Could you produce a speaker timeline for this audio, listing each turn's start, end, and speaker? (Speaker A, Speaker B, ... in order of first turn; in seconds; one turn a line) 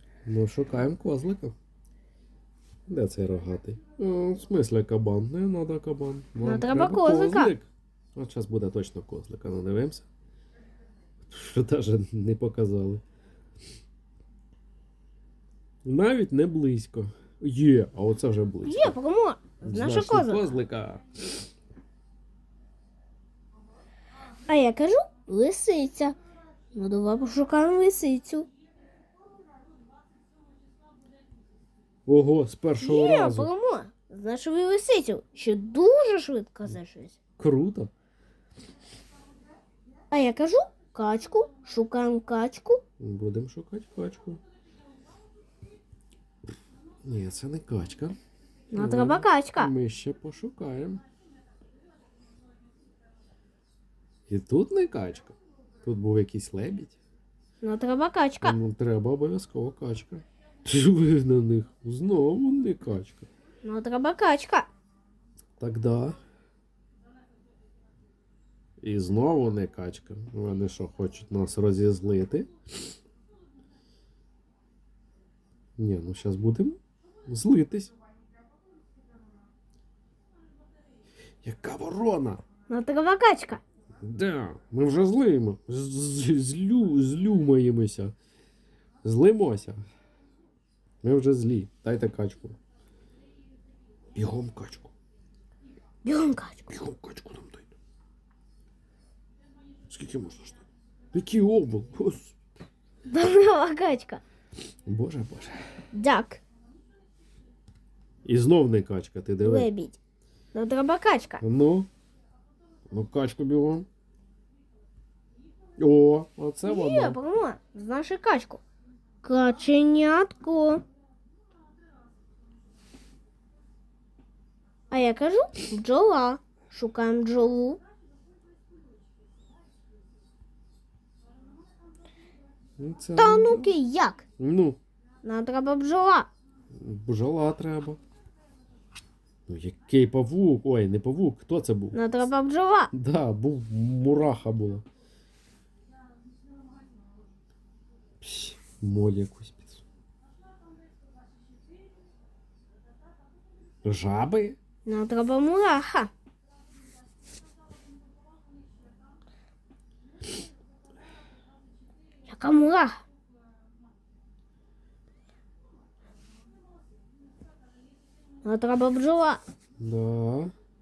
Speaker A: 0.2-1.5
Speaker A: 2.9-10.1
Speaker B: 6.4-7.5
Speaker A: 11.2-13.0
Speaker A: 15.8-18.9
Speaker B: 18.6-20.6
Speaker A: 19.6-21.1
Speaker B: 24.5-26.1
Speaker B: 26.7-28.5
Speaker A: 32.0-33.5
Speaker B: 32.8-37.1
Speaker A: 37.4-37.9
Speaker B: 40.1-42.8
Speaker A: 43.0-44.4
Speaker A: 47.0-48.1
Speaker B: 48.7-49.7
Speaker A: 48.7-51.0
Speaker A: 54.3-57.0
Speaker B: 57.6-58.5
Speaker A: 58.4-63.3
Speaker B: 63.6-64.7
Speaker A: 65.6-66.2
Speaker A: 68.8-72.5
Speaker A: 75.8-77.9
Speaker A: 81.4-82.4
Speaker B: 82.7-83.6
Speaker A: 84.0-88.1
Speaker A: 89.0-89.8
Speaker A: 91.0-92.6
Speaker A: 94.1-94.9
Speaker B: 96.0-96.7
Speaker A: 96.7-97.7
Speaker A: 99.9-100.6
Speaker A: 101.1-102.3
Speaker B: 103.1-104.2
Speaker A: 104.8-105.6
Speaker B: 105.9-106.4
Speaker A: 108.2-109.7
Speaker B: 109.4-110.0
Speaker B: 110.5-111.4
Speaker A: 111.4-111.9
Speaker A: 112.9-113.9
Speaker A: 115.8-117.2
Speaker B: 116.6-118.6
Speaker B: 119.2-120.8
Speaker B: 124.9-127.8
Speaker A: 132.8-133.7
Speaker B: 133.2-134.2
Speaker A: 134.4-134.8
Speaker B: 135.2-136.3
Speaker A: 136.7-138.0
Speaker A: 139.5-142.0
Speaker B: 141.9-142.9
Speaker A: 142.9-144.8
Speaker A: 148.2-149.8
Speaker A: 153.8-154.6
Speaker B: 154.8-156.1
Speaker B: 162.2-163.0
Speaker B: 168.4-169.4
Speaker A: 169.8-170.5